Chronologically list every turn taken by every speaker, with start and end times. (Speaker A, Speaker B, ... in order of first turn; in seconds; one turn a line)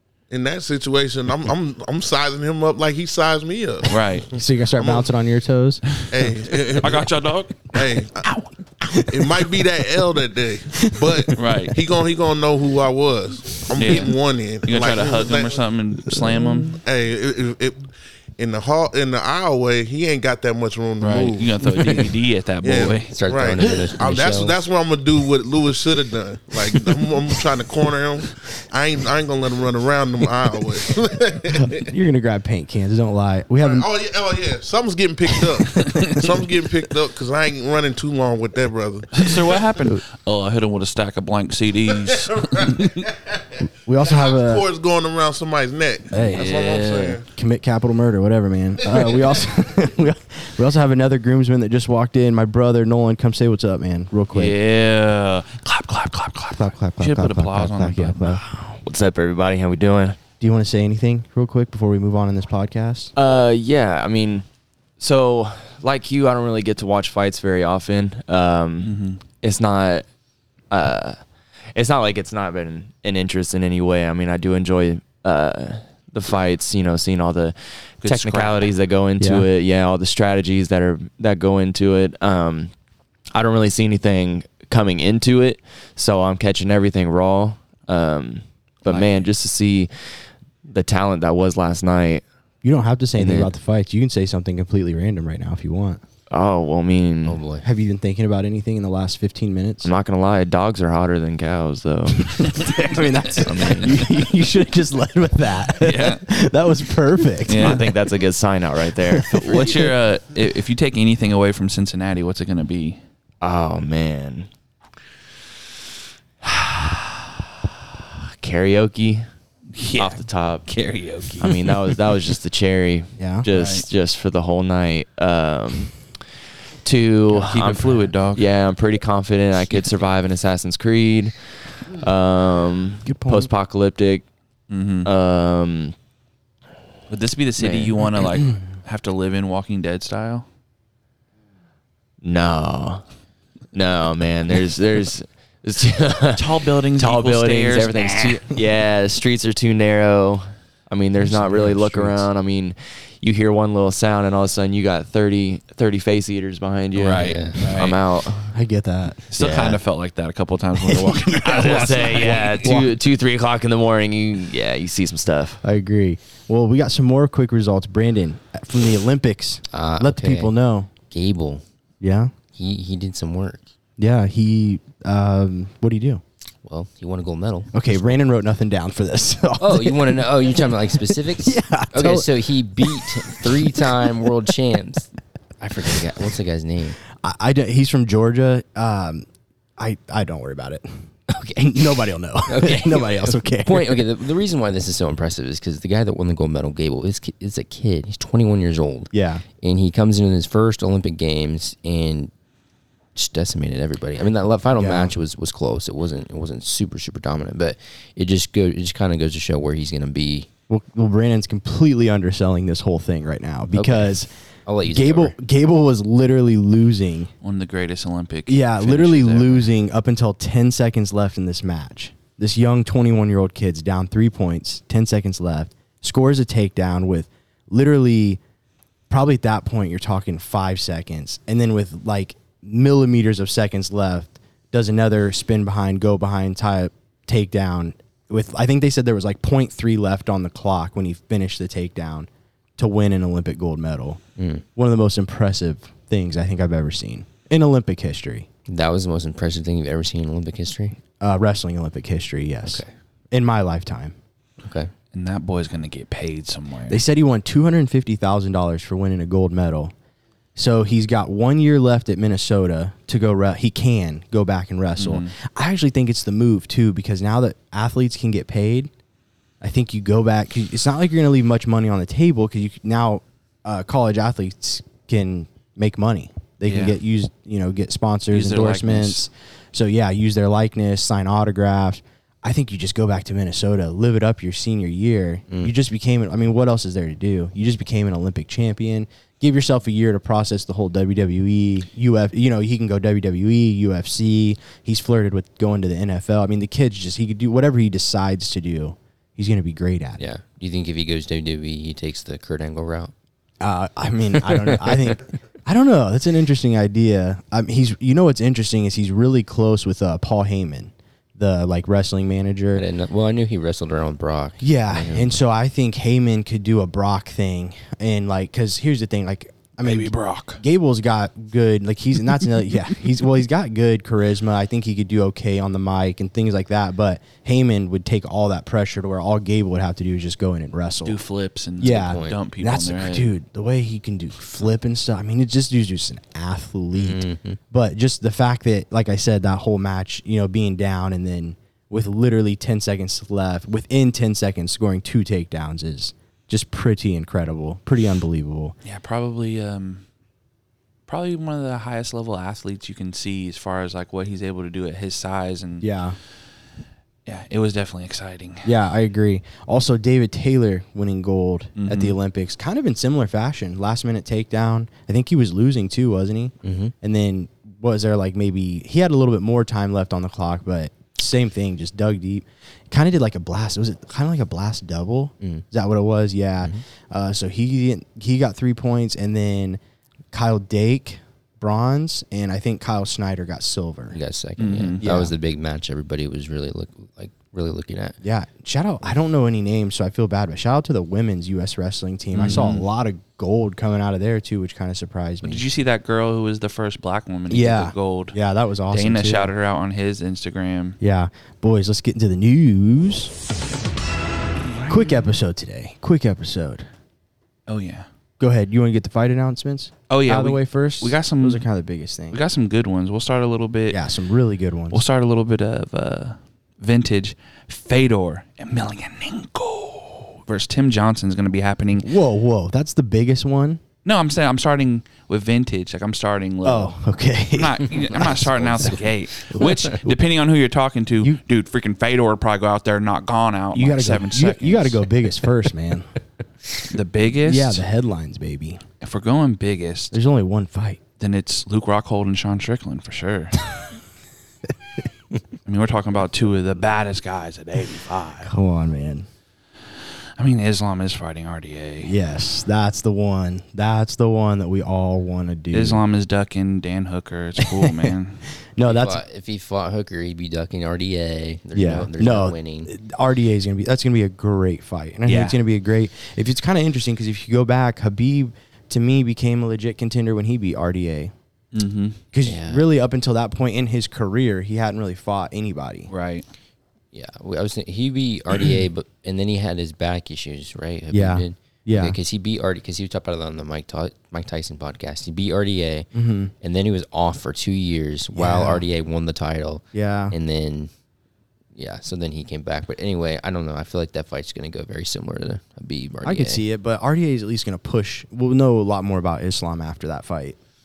Speaker A: 0.3-5.1
Speaker B: 3.9-4.3
Speaker C: 4.3-5.8
Speaker A: 6.1-7.1
Speaker B: 6.8-7.8
Speaker A: 7.7-8.2
Speaker C: 7.8-10.2
Speaker A: 9.1-15.6
Speaker C: 10.7-11.4
Speaker B: 11.3-11.8
Speaker B: 13.8-16.8
Speaker C: 16.1-16.7
Speaker A: 16.7-31.9
Speaker B: 21.0-23.1
Speaker D: 23.1-24.6
Speaker C: 31.5-33.9
Speaker A: 33.6-39.8
Speaker C: 35.6-36.2
Speaker B: 39.1-43.1
Speaker A: 41.9-47.3
Speaker C: 43.9-44.7
Speaker C: 46.1-46.5
Speaker B: 46.2-47.2
Speaker C: 47.3-54.6
Speaker B: 54.3-58.4
Speaker C: 56.5-58.4
Speaker E: 58.4-60.2
Speaker C: 60.4-63.1
Speaker E: 63.2-64.4
Speaker E: 65.0-70.0
Speaker B: 68.8-69.2
Speaker E: 70.7-71.2
Speaker E: 71.7-82.7
Speaker B: 78.0-78.7
Speaker C: 79.2-79.5
Speaker E: 83.3-92.2
Speaker C: 92.6-96.0
Speaker E: 93.2-93.5
Speaker E: 96.3-97.4
Speaker D: 97.2-97.7
Speaker C: 97.6-99.9
Speaker E: 99.8-102.7
Speaker C: 102.2-107.8
Speaker E: 103.4-104.1
Speaker B: 105.8-106.2
Speaker B: 107.5-107.9
Speaker E: 107.5-109.9
Speaker C: 109.0-109.9
Speaker B: 109.3-113.0
Speaker E: 113.4-114.5
Speaker E: 116.4-117.4
Speaker E: 118.0-119.3
Speaker B: 119.7-122.0
Speaker E: 120.0-120.7
Speaker E: 121.4-126.2
Speaker C: 123.2-123.5
Speaker B: 123.5-123.9
Speaker E: 126.8-134.3
Speaker B: 127.3-128.5
Speaker C: 133.1-133.5
Speaker B: 134.7-135.1
Speaker E: 135.1-135.9
Speaker B: 137.1-140.5
Speaker E: 137.6-138.2
Speaker E: 142.2-143.0
Speaker E: 143.7-158.6
Speaker B: 146.3-148.5
Speaker C: 151.3-152.3
Speaker B: 156.9-158.0
Speaker D: 157.1-157.7
Speaker C: 158.5-159.2
Speaker B: 159.3-162.7
Speaker D: 159.4-159.8
Speaker C: 160.8-161.9
Speaker E: 161.4-165.6
Speaker C: 162.6-162.9
Speaker C: 165.6-170.9
Speaker D: 169.7-170.5
Speaker D: 171.1-171.6
Speaker C: 172.0-172.3
Speaker D: 172.5-173.7
Speaker C: 174.0-176.2
Speaker D: 176.6-177.7
Speaker C: 177.7-184.1
Speaker D: 179.6-185.1
Speaker D: 185.6-187.0
Speaker C: 187.2-189.3
Speaker C: 189.8-194.0
Speaker D: 191.3-202.3
Speaker C: 199.1-199.4
Speaker D: 203.2-210.5
Speaker C: 204.8-205.1
Speaker C: 210.7-214.3
Speaker D: 213.7-214.1
Speaker D: 214.7-215.4
Speaker C: 214.8-217.3
Speaker B: 217.4-219.7
Speaker C: 218.5-228.4
Speaker C: 229.1-244.2
Speaker D: 244.4-244.7
Speaker C: 244.8-248.5
Speaker D: 248.7-251.0
Speaker C: 251.2-254.2
Speaker D: 252.7-252.9
Speaker D: 254.6-254.9
Speaker B: 255.1-257.0
Speaker C: 256.9-259.9
Speaker C: 260.6-268.9
Speaker B: 265.0-265.3
Speaker C: 269.6-300.2
Speaker B: 276.7-277.0
Speaker B: 278.3-279.2
Speaker D: 285.5-285.7
Speaker D: 300.2-303.1
Speaker C: 303.6-312.8
Speaker D: 304.5-305.0
Speaker D: 312.7-315.4
Speaker C: 314.6-331.2
Speaker B: 319.8-320.6
Speaker B: 331.1-333.3
Speaker C: 331.8-348.8
Speaker D: 331.8-332.4
Speaker D: 336.9-337.6
Speaker B: 348.8-350.1
Speaker B: 351.1-355.9
Speaker C: 355.8-356.2
Speaker B: 357.3-358.7
Speaker C: 358.6-379.8
Speaker B: 361.8-362.2
Speaker D: 366.6-366.9
Speaker C: 380.3-384.2
Speaker D: 384.1-388.2
Speaker B: 384.6-385.0
Speaker C: 385.0-385.3
Speaker C: 388.2-395.6
Speaker B: 392.4-392.9
Speaker B: 395.4-398.4
Speaker C: 397.5-399.5
Speaker B: 398.9-401.0
Speaker C: 401.0-403.3
Speaker B: 404.6-405.3
Speaker C: 404.9-406.9
Speaker B: 407.7-408.1
Speaker C: 408.4-412.4
Speaker B: 410.1-411.7
Speaker B: 412.3-414.0
Speaker C: 413.9-415.1
Speaker B: 414.9-422.1
Speaker C: 422.0-423.8
Speaker B: 424.1-427.0
Speaker C: 426.6-429.0
Speaker B: 427.5-435.1
Speaker D: 428.6-429.0
Speaker C: 429.5-430.2
Speaker D: 429.6-429.9
Speaker C: 433.7-436.1
Speaker B: 436.9-437.8
Speaker C: 437.4-438.8
Speaker B: 439.0-440.2
Speaker C: 440.1-441.0
Speaker B: 441.2-443.6
Speaker B: 445.7-448.5
Speaker C: 448.4-449.3
Speaker B: 450.4-452.1
Speaker C: 452.0-456.0
Speaker B: 455.7-458.4
Speaker C: 457.6-458.1
Speaker C: 458.6-459.2
Speaker D: 458.8-462.9
Speaker C: 461.7-471.3
Speaker B: 465.3-465.6
Speaker B: 471.7-472.2
Speaker C: 472.3-476.1
Speaker D: 472.4-472.9
Speaker B: 476.1-476.5
Speaker D: 477.1-486.1
Speaker C: 481.1-482.2
Speaker C: 486.1-486.5
Speaker D: 486.6-490.9
Speaker C: 488.4-488.9
Speaker C: 489.9-490.4
Speaker D: 491.8-496.6
Speaker C: 496.2-500.6